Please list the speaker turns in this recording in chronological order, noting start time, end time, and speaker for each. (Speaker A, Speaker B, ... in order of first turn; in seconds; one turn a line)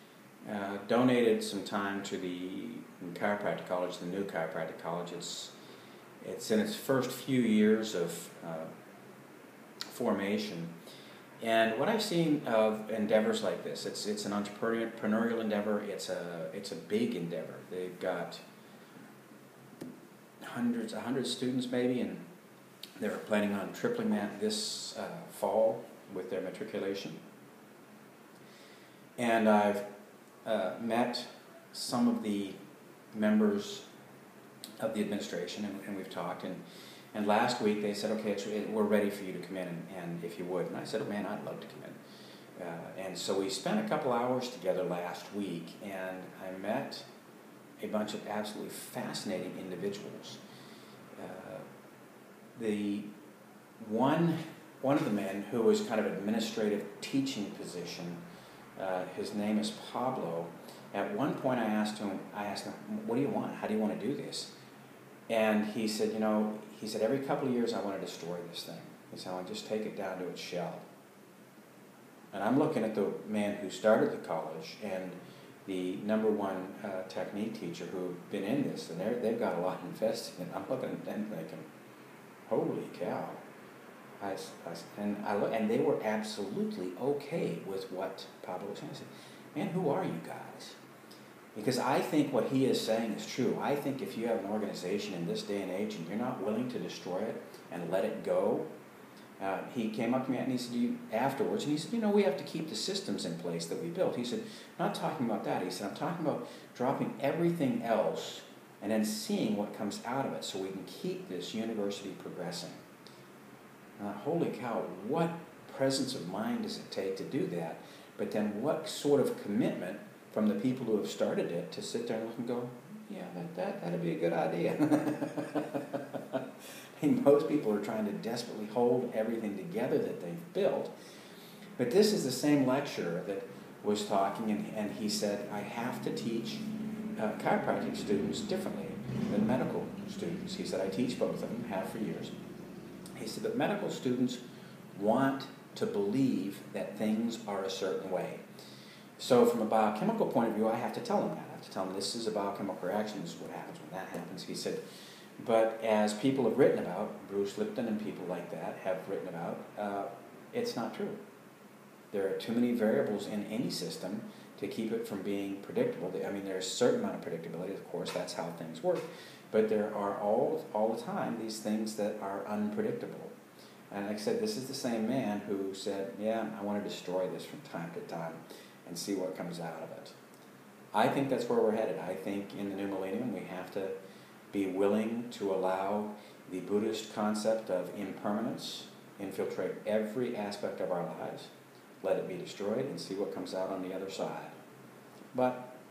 Speaker A: 0.4-5.5
Speaker A: 6.2-8.7
Speaker A: 9.9-10.7
Speaker A: 11.4-18.4
Speaker A: 20.4-22.2
Speaker A: 23.0-27.2
Speaker A: 29.2-29.9
Speaker A: 30.4-32.6
Speaker A: 33.1-33.9
Speaker A: 34.8-36.6
Speaker A: 37.1-42.0
Speaker A: 42.6-47.0
Speaker A: 47.8-50.4
Speaker A: 51.2-51.6
Speaker A: 52.5-53.1
Speaker A: 53.8-58.2
Speaker A: 58.8-64.5
Speaker A: 65.3-70.8
Speaker A: 72.3-81.7
Speaker A: 82.5-83.4
Speaker A: 84.2-90.8
Speaker A: 91.5-98.7
Speaker A: 99.4-112.8
Speaker A: 114.0-126.4
Speaker A: 127.0-130.9
Speaker A: 131.8-136.6
Speaker A: 137.2-142.3
Speaker A: 143.2-144.4
Speaker A: 144.9-148.4
Speaker A: 149.2-154.8
Speaker A: 155.4-161.2
Speaker A: 162.1-173.3
Speaker A: 173.9-180.2
Speaker A: 180.9-183.9
Speaker A: 184.5-191.5
Speaker A: 192.0-194.6
Speaker A: 195.3-195.7